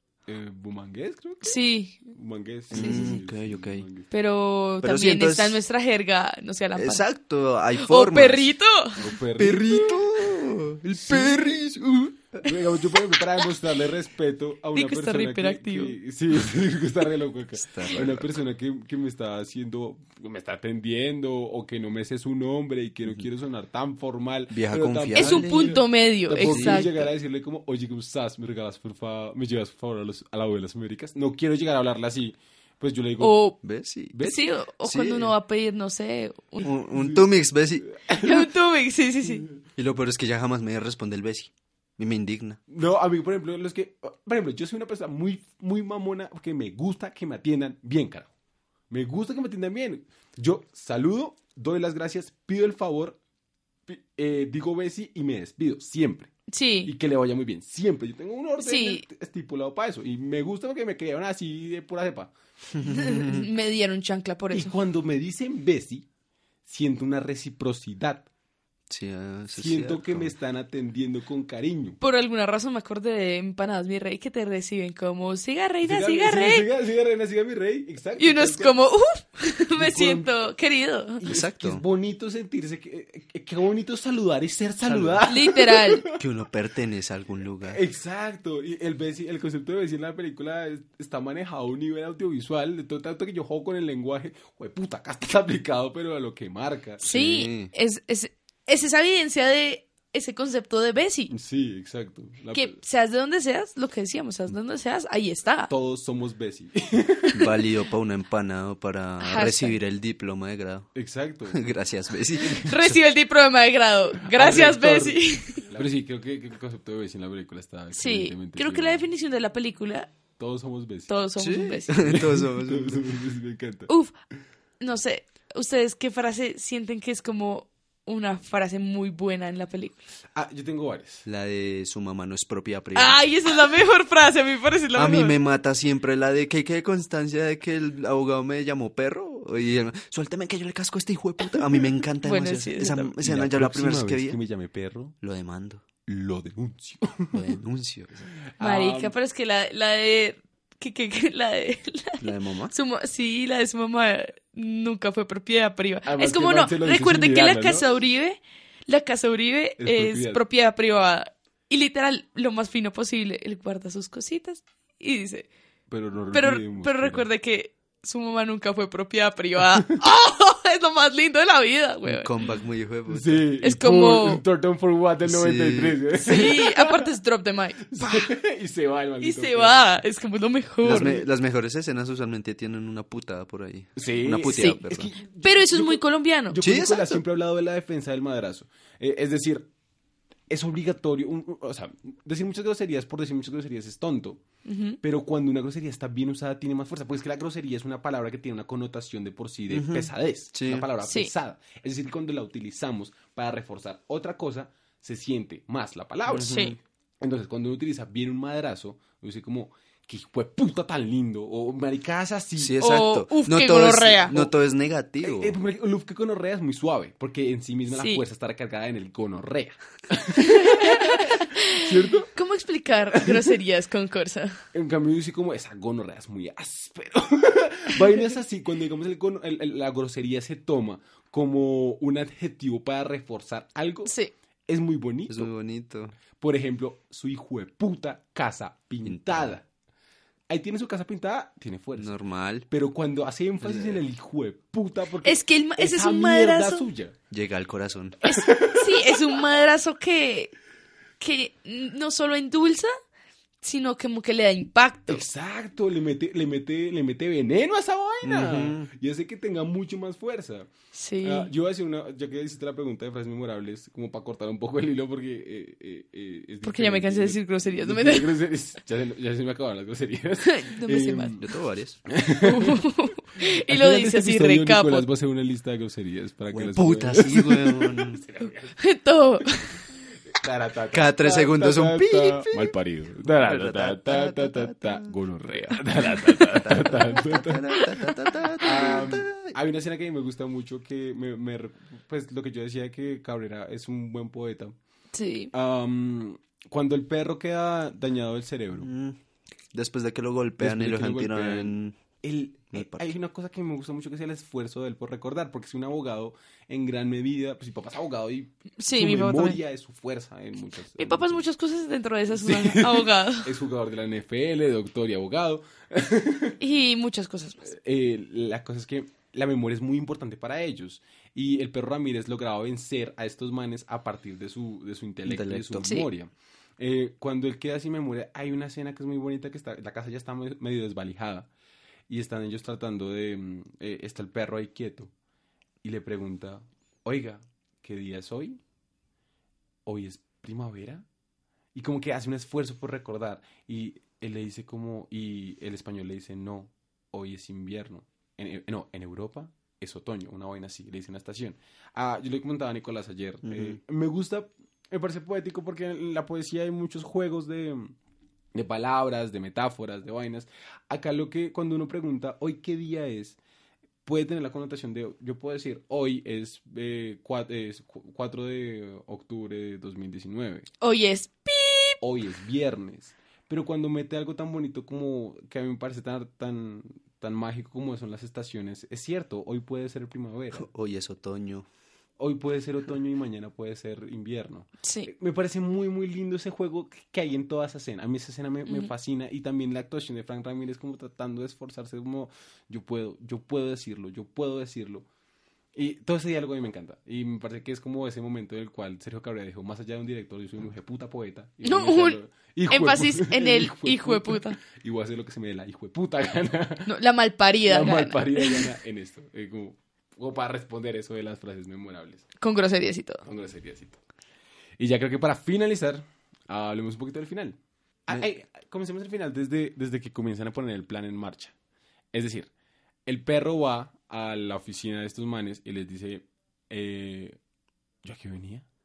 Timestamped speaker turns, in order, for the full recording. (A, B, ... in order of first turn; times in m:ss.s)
0:00.3-0:01.6 A
0:01.4-0:02.0 B
0:02.1-0:04.1 A
0:02.7-0:03.9 C
0:02.7-0:03.2 B
0:04.1-0:07.1 B
0:04.8-0:05.6 C
0:06.8-0:08.5 C
0:07.8-0:09.1 B
0:09.0-0:10.1 A
0:09.4-0:12.5 C
0:11.0-0:11.6 A
0:12.4-0:33.4 A
0:14.8-0:16.0 B
0:17.6-0:18.3 C
0:24.5-0:25.8 C
0:25.2-0:27.1 B
0:26.4-0:26.9 C
0:33.2-0:33.6 B
0:33.6-0:34.2 C
0:34.1-0:34.4 A
0:34.2-0:36.7 B
0:34.8-0:35.3 C
0:36.6-0:37.9 C
0:36.9-0:37.3 A
0:37.8-0:38.5 A
0:38.1-0:39.5 B
0:39.8-0:42.6 C
0:42.7-0:48.3 A
0:48.9-0:53.2 A
0:53.9-0:56.3 A
0:56.5-0:56.9 B
0:56.8-1:02.3 A
0:58.6-0:59.0 B
1:02.7-1:03.5 C
1:02.8-1:04.7 B
1:04.5-1:06.1 A
1:06.7-1:08.3 A
1:08.9-1:10.3 C
1:09.5-1:12.0 A
1:12.0-1:16.7 B
1:15.8-1:18.8 A
1:18.2-1:21.2 B
1:19.8-1:20.3 A
1:21.2-1:26.2 A
1:21.2-1:21.8 C
1:24.8-1:25.3 C
1:25.3-1:26.0 B
1:26.2-1:27.8 C
1:27.7-1:37.0 A
1:37.0-1:41.3 B
1:37.0-1:37.7 C
1:41.3-1:42.8 A
1:42.5-1:45.7 B
1:45.7-1:47.4 A
1:47.3-1:50.9 C
1:49.2-1:49.8 B
1:51.0-1:51.7 A
1:51.5-1:53.0 C
1:52.4-1:55.7 B
1:54.2-1:59.1 A
1:57.9-2:00.1 B
2:00.4-2:01.1 A
2:01.1-2:02.1 B
2:01.4-2:03.1 C
2:02.0-2:03.9 A
2:03.9-2:04.1 B
2:04.8-2:10.0 B
2:10.3-2:11.3 A
2:11.3-2:13.2 C
2:13.0-2:15.4 B
2:15.0-2:24.4 C
2:22.2-2:23.1 B
2:23.2-2:25.2 A
2:25.2-2:25.8 C
2:26.1-2:27.4 A
2:27.3-2:28.3 C
2:28.5-2:29.1 A
2:28.6-2:45.5 B
2:32.2-2:32.7 C
2:36.1-2:37.9 A
2:39.8-2:40.4 A
2:45.9-2:47.3 A
2:46.3-2:52.3 B
2:52.1-2:53.5 C
2:53.1-2:57.1 A
2:53.6-2:54.4 B
2:55.2-2:56.0 C
2:56.2-2:58.3 B
2:57.9-3:00.0 A
2:59.2-3:01.2 B
3:00.8-3:05.1 C
3:00.9-3:01.2 A
3:04.0-3:09.7 A
3:04.5-3:04.8 B
3:05.4-3:06.6 B
3:06.6-3:07.2 C
3:10.5-3:14.4 A
3:14.6-3:15.0 B
3:15.0-3:32.8 A
3:19.7-3:20.9 C
3:21.0-3:21.3 B
3:26.3-3:26.8 C
3:26.4-3:26.8 B
3:32.6-3:35.6 C
3:32.8-3:34.5 B
3:35.2-3:42.3 A
3:37.9-3:38.2 B
3:40.4-3:44.6 B
3:43.2-3:43.4 A
3:44.7-3:54.1 A
3:54.1-3:54.3 B
3:54.7-3:55.5 A
3:55.3-3:56.2 C
3:56.4-3:59.7 A
3:59.0-3:59.6 C
4:00.5-4:02.2 A
4:02.0-4:02.7 C
4:02.7-4:07.2 A
4:03.6-4:04.0 C
4:05.2-4:06.9 B
4:07.3-4:08.2 C
4:08.2-4:10.5 B
4:08.3-4:09.2 A
4:11.2-4:12.9 B
4:13.6-4:15.2 B
4:15.1-4:20.7 A
4:18.2-4:18.9 C
4:20.9-4:21.5 B
4:21.2-4:31.4 A
4:26.6-4:28.3 B
4:30.4-4:31.4 B
4:31.4-4:32.0 C
4:32.1-4:32.8 A
4:32.4-4:35.1 B
4:33.4-4:38.7 A
4:36.5-4:38.2 C
4:38.8-4:39.7 B
4:40.3-4:47.8 A
4:40.9-4:42.7 C
4:43.3-4:45.2 C
4:46.0-4:49.6 C
4:48.6-4:54.8 A
4:55.1-4:55.5 B
4:55.5-4:58.9 A
4:58.8-4:59.2 C
4:59.7-5:02.0 C
5:00.6-5:11.4 A
5:02.7-5:03.1 C
5:08.8-5:09.6 B
5:11.0-5:13.5 B
5:12.3-5:16.6 A
5:16.6-5:17.7 B
5:17.6-5:31.5 A
5:25.2-5:25.9 C
5:32.1-5:35.1 A
5:35.8-5:38.6 A
5:39.9-5:41.0 A
5:41.7-5:57.9 A
5:53.4-5:53.8 C
5:58.5-6:03.4 A
6:04.0-6:10.7 A
6:10.8-6:12.0 B
6:12.0-6:20.7 A
6:20.5-6:21.7 C
6:22.2-6:35.1 A
6:24.8-6:25.1 B
6:35.8-6:46.9 A
6:41.6-6:42.2 B
6:42.7-6:44.6 B
6:46.9-6:48.7 B
6:47.7-6:52.2 A
6:52.4-6:53.2 B
6:53.2-6:54.0 A
6:54.8-7:01.5 A
7:02.1-7:02.5 A
7:03.1-7:07.4 A
7:08.0-7:08.7 A